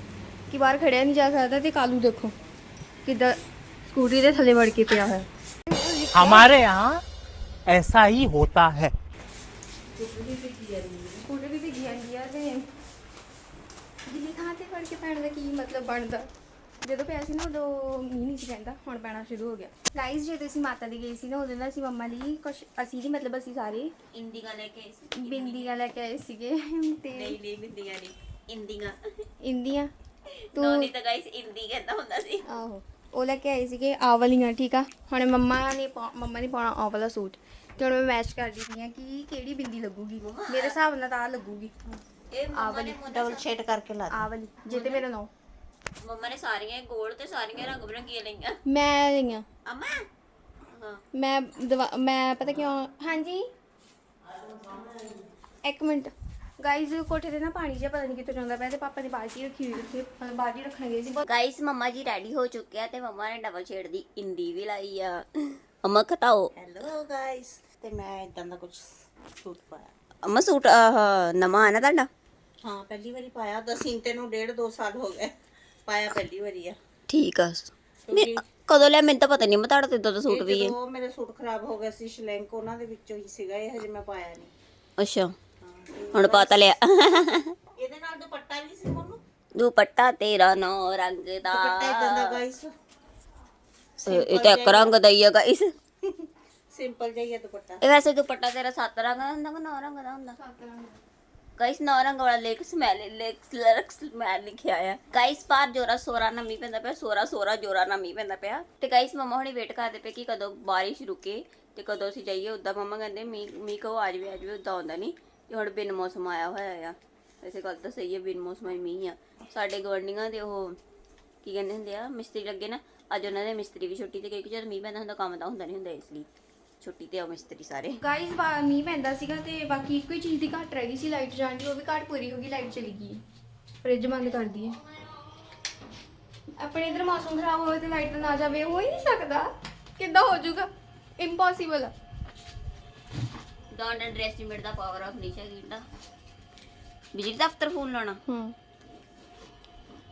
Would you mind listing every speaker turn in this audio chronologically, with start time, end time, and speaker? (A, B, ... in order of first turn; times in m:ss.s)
0:00.5-0:02.3 A
0:03.0-0:06.5 A
0:06.2-0:07.0 B
0:07.7-0:08.9 B
0:10.0-0:11.2 C
0:11.2-0:12.7 A
0:14.0-0:16.3 A
0:16.8-0:23.9 A
0:24.1-0:25.8 D
0:25.2-0:27.4 A
0:27.1-0:29.0 D
0:29.4-0:29.9 A
0:30.5-0:32.4 D
0:30.6-0:30.9 A
0:32.5-0:41.7 A
0:40.2-0:40.7 D
0:42.3-0:43.4 D
0:42.5-0:43.0 A
0:43.1-0:44.2 C
0:44.1-0:45.3 A
0:44.7-0:45.0 D
0:46.0-0:48.6 D
0:48.7-0:49.4 A
0:49.7-0:50.0 D
0:50.7-0:51.0 D
0:51.1-0:53.5 A
0:55.6-1:01.2 A
1:01.2-1:06.5 D
1:06.6-1:08.9 C
1:09.4-1:09.9 C
1:10.2-1:12.1 D
1:12.6-1:15.3 C
1:15.9-1:16.8 C
1:17.1-1:20.8 D
1:18.1-1:18.4 C
1:20.3-1:24.5 C
1:25.0-1:25.3 D
1:25.6-1:26.7 C
1:26.1-1:27.5 D
1:27.8-1:29.2 C
1:29.6-1:32.4 D
1:31.5-1:32.7 C
1:34.0-1:35.7 D
1:34.1-1:34.9 C
1:36.1-1:37.8 C
1:37.8-1:40.4 D
1:40.4-1:41.0 A
1:41.6-2:00.8 D
2:01.4-2:06.3 D
2:06.8-2:08.0 D
2:08.0-2:13.2 A
2:13.8-2:14.8 A
2:16.6-2:21.9 A
2:23.7-2:25.8 D
2:27.2-2:28.2 D
2:28.3-2:28.5 A